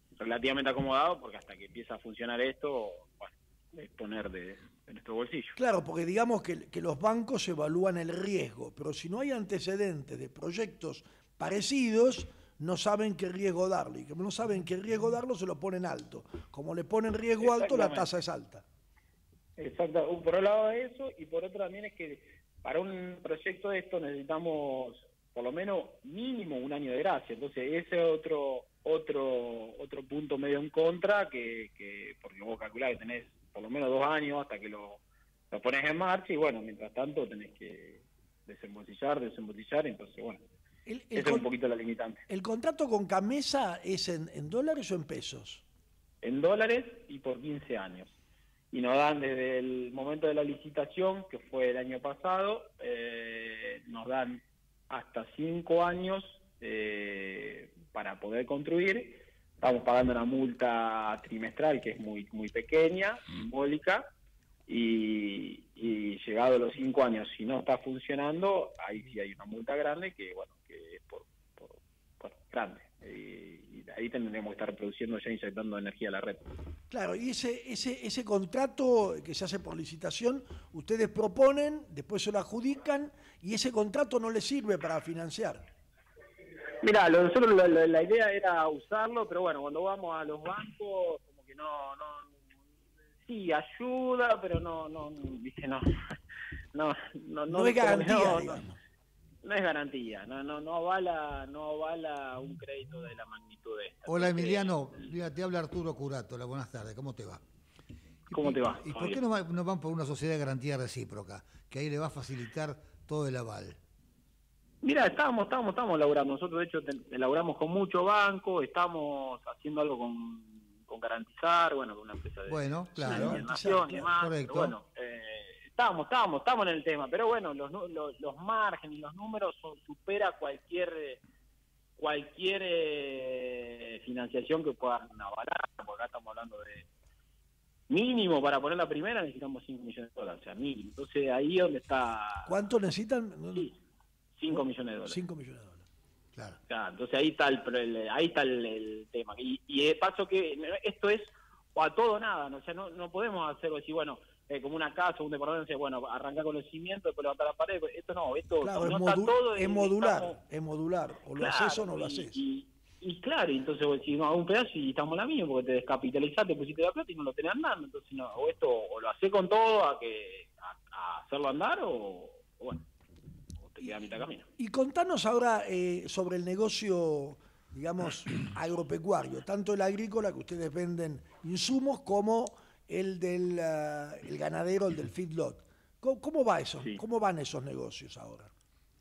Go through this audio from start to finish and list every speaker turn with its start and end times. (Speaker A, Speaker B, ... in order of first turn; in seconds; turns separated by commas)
Speaker A: 0.2-5.6, Speaker B: 5.6-18.6, Speaker A: 17.4-18.1, Speaker A: 19.6-40.4, Speaker B: 40.9-41.5, Speaker A: 41.1-42.2, Speaker B: 42.3-45.6, Speaker A: 46.2-48.2, Speaker A: 48.7-64.0, Speaker A: 64.7-76.4, Speaker B: 76.9-85.6, Speaker A: 86.8-92.4, Speaker A: 93.2-95.8, Speaker A: 96.7-98.6, Speaker B: 97.5-98.8, Speaker A: 99.4-104.8, Speaker C: 104.1-107.4, Speaker C: 108.3-113.8, Speaker A: 108.3-109.2, Speaker A: 114.8-131.2, Speaker C: 122.5-123.5, Speaker B: 123.0-124.1, Speaker C: 124.0-124.8, Speaker A: 132.0-136.9, Speaker A: 137.9-142.6, Speaker B: 142.5-143.7, Speaker A: 144.4-145.2, Speaker B: 144.5-145.8, Speaker A: 146.7-160.4, Speaker B: 158.6-162.4, Speaker A: 161.4-172.8, Speaker A: 173.6-174.5, Speaker B: 174.6-188.5